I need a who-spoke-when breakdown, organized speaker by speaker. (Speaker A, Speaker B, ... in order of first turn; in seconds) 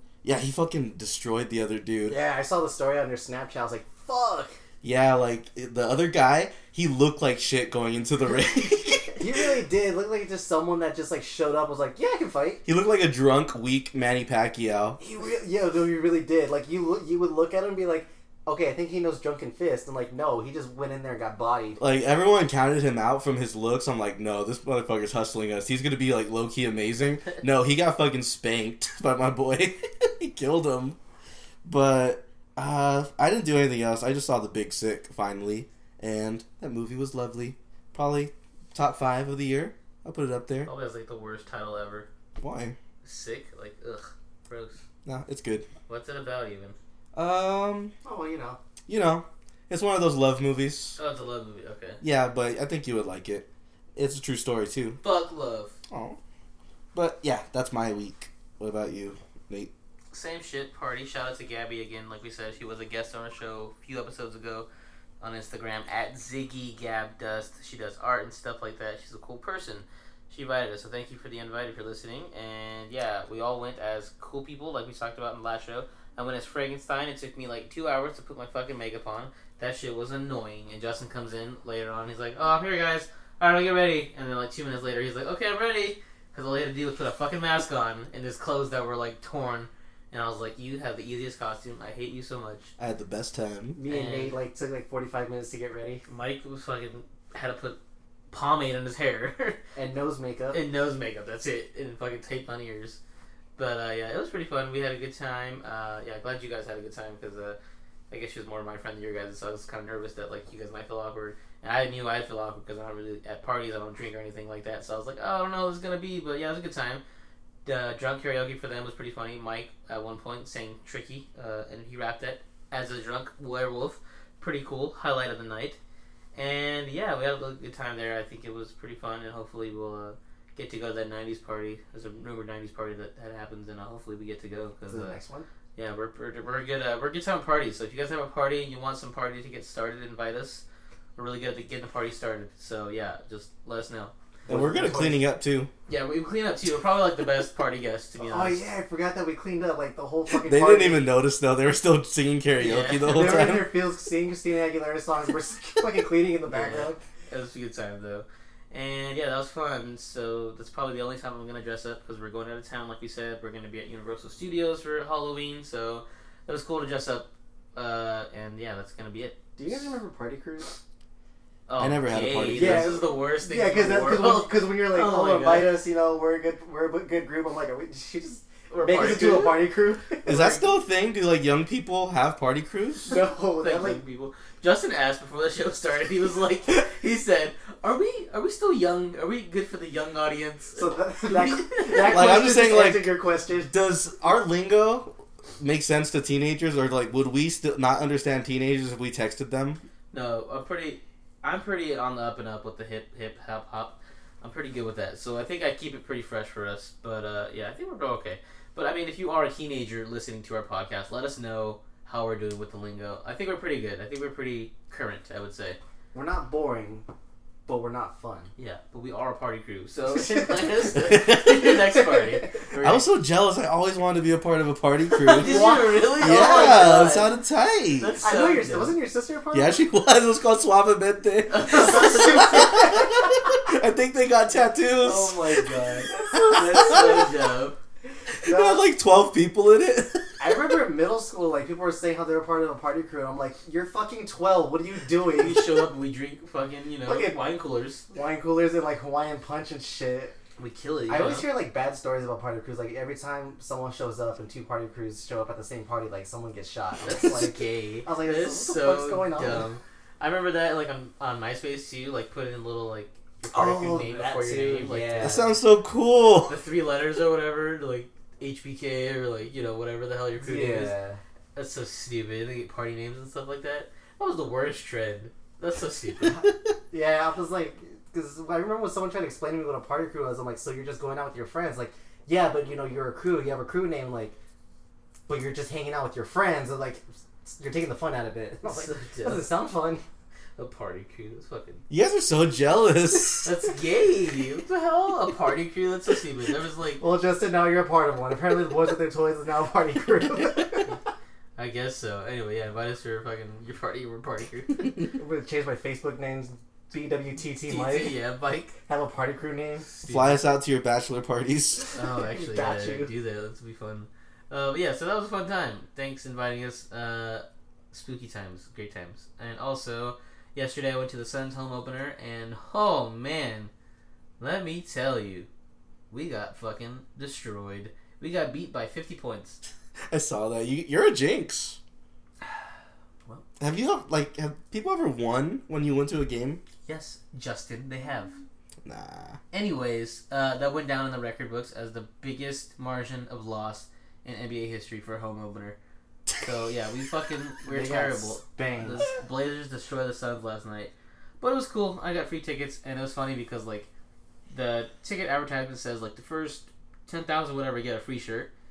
Speaker A: 0.2-2.2, 4.8-9.4, 12.7-15.0, 21.8-31.0, 31.6-40.7, 42.4-42.8, 45.0-45.7, 47.1-47.9, 48.9-51.0, 52.0-55.0, 55.9-56.2, 56.9-59.7, 92.8-93.8, 144.5-145.7, 150.3-153.7, 171.8-172.9, 180.2-183.1, 192.0-199.8, 221.0-221.6, 222.8-225.6, 226.2-228.2, 229.5-235.4, 236.2-237.2, 238.4-240.5, 265.2-266.6, 291.9-293.5, 310.1-311.9, 330.1-331.8, 333.6-336.6, 338.8-339.4
Speaker B: 2.1-4.6, 9.1-12.6, 15.0-21.8, 48.0-48.6, 93.8-96.0, 99.8-100.6, 134.9-135.5, 144.5-145.2, 148.2-151.1, 153.0-157.0, 169.6-170.8, 172.5-180.7, 183.1-184.0, 190.8-193.7, 216.1-217.1, 217.7-218.5, 220.2-220.5, 221.9-222.5, 225.3-227.2, 228.2-229.8, 231.7-233.4, 235.0-236.1, 236.8-237.1, 238.4-238.8, 240.4-245.7, 247.1-247.3, 248.1-250.3, 251.1-259.7, 263.5-265.5, 270.4-271.2, 276.2-284.4, 285.3-290.0, 297.0-300.9, 305.1-308.1, 308.9-309.9, 312.2-313.1, 347.6-349.1
Speaker C: 40.6-42.1, 43.0-44.8, 45.9-46.8, 51.0-52.0, 55.0-55.8, 60.1-64.7, 65.2-92.7, 93.9-94.3, 96.0-97.8, 98.3-99.6, 100.5-103.0, 103.6-107.6, 108.1-117.0, 117.6-125.8, 126.3-135.2, 135.8-140.6, 141.2-144.1, 145.9-148.6, 152.6-153.4, 156.5-169.4, 171.7-175.8, 178.7-179.6, 183.6-192.4, 200.1-215.8, 218.6-223.0, 225.2-227.3, 228.0-228.9, 231.5-232.7, 236.4-237.8, 245.3-248.0, 250.6-251.5, 257.0-265.4, 266.5-270.9, 271.5-276.4, 288.6-289.5, 290.6-291.8, 293.4-297.0, 301.6-305.0, 307.6-308.8, 309.9-310.4, 311.9-323.7, 324.4-325.5, 326.1-329.6, 336.9-338.4, 339.5-345.8, 346.4-353.9, 354.5-358.5